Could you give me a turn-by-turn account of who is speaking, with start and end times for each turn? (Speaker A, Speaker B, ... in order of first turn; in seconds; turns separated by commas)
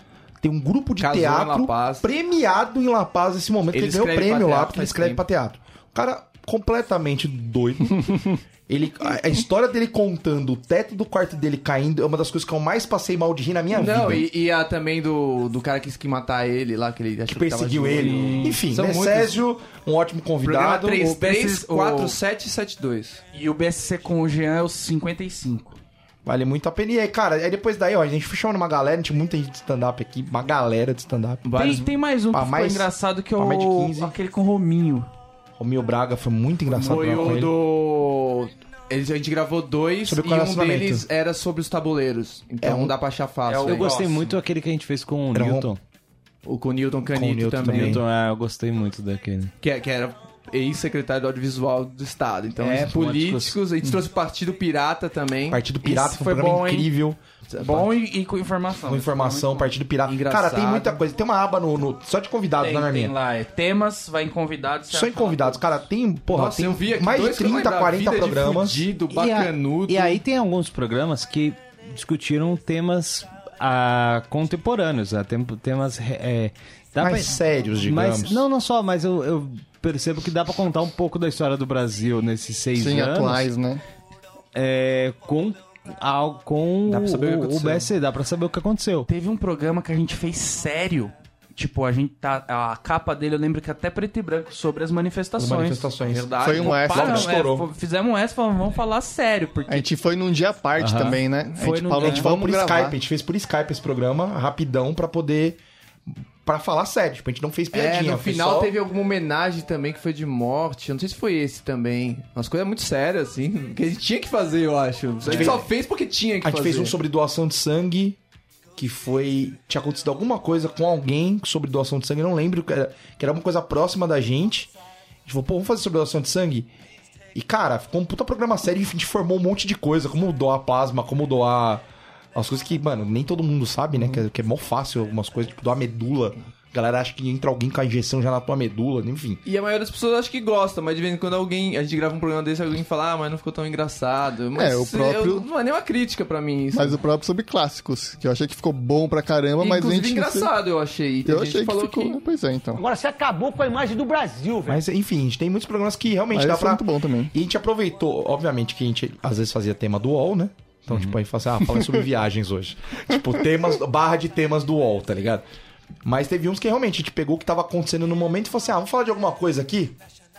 Speaker A: 0.4-14.3, Speaker B: 1.0-2.1, Speaker B: 3.7-5.2, Speaker B: 13.7-19.4, Speaker A: 17.3-21.1, Speaker C: 17.9-18.6, Speaker B: 20.4-23.2, Speaker C: 21.0-22.2, Speaker C: 23.3-25.8, Speaker A: 26.2-31.6, Speaker B: 31.4-31.9, Speaker C: 31.6-35.1, Speaker A: 32.3-34.1, Speaker A: 35.6-37.5, Speaker B: 36.8-43.9, Speaker C: 36.8-37.5, Speaker A: 40.0-41.1, Speaker A: 42.6-43.0, Speaker C: 43.5-44.3, Speaker D: 43.6-45.8, Speaker A: 45.3-45.7, Speaker B: 46.5-48.0, Speaker A: 47.1-48.0, Speaker D: 47.7-49.5, Speaker B: 49.6-55.6, Speaker D: 52.6-53.6, Speaker A: 55.5-57.2, Speaker C: 55.8-56.9, Speaker B: 57.5-57.9, Speaker C: 57.6-59.7, Speaker A: 58.8-63.1, Speaker B: 60.1-61.0, Speaker C: 62.6-65.6, Speaker A: 64.9-68.9, Speaker B: 66.3-70.2, Speaker D: 69.1-83.5, Speaker A: 77.0-78.4, Speaker E: 82.8-83.8, Speaker D: 84.5-89.1, Speaker B: 86.9-87.9, Speaker C: 89.1-95.9, Speaker A: 95.4-97.7, Speaker B: 96.1-97.0, Speaker E: 96.4-97.3, Speaker C: 96.6-99.9, Speaker E: 99.7-103.0, Speaker D: 100.8-101.2, Speaker C: 101.6-102.3, Speaker A: 102.0-108.8, Speaker B: 107.7-117.0, Speaker A: 115.2-115.7, Speaker A: 116.4-118.2, Speaker A: 118.8-124.7, Speaker A: 125.3-126.7, Speaker A: 127.3-131.8, Speaker A: 132.3-139.4, Speaker B: 139.4-147.0, Speaker E: 144.6-145.5, Speaker E: 146.7-150.5, Speaker B: 149.6-152.2, Speaker E: 151.2-152.8, Speaker F: 152.8-154.7, Speaker A: 154.7-165.4, Speaker E: 156.3-157.3, Speaker A: 166.0-170.0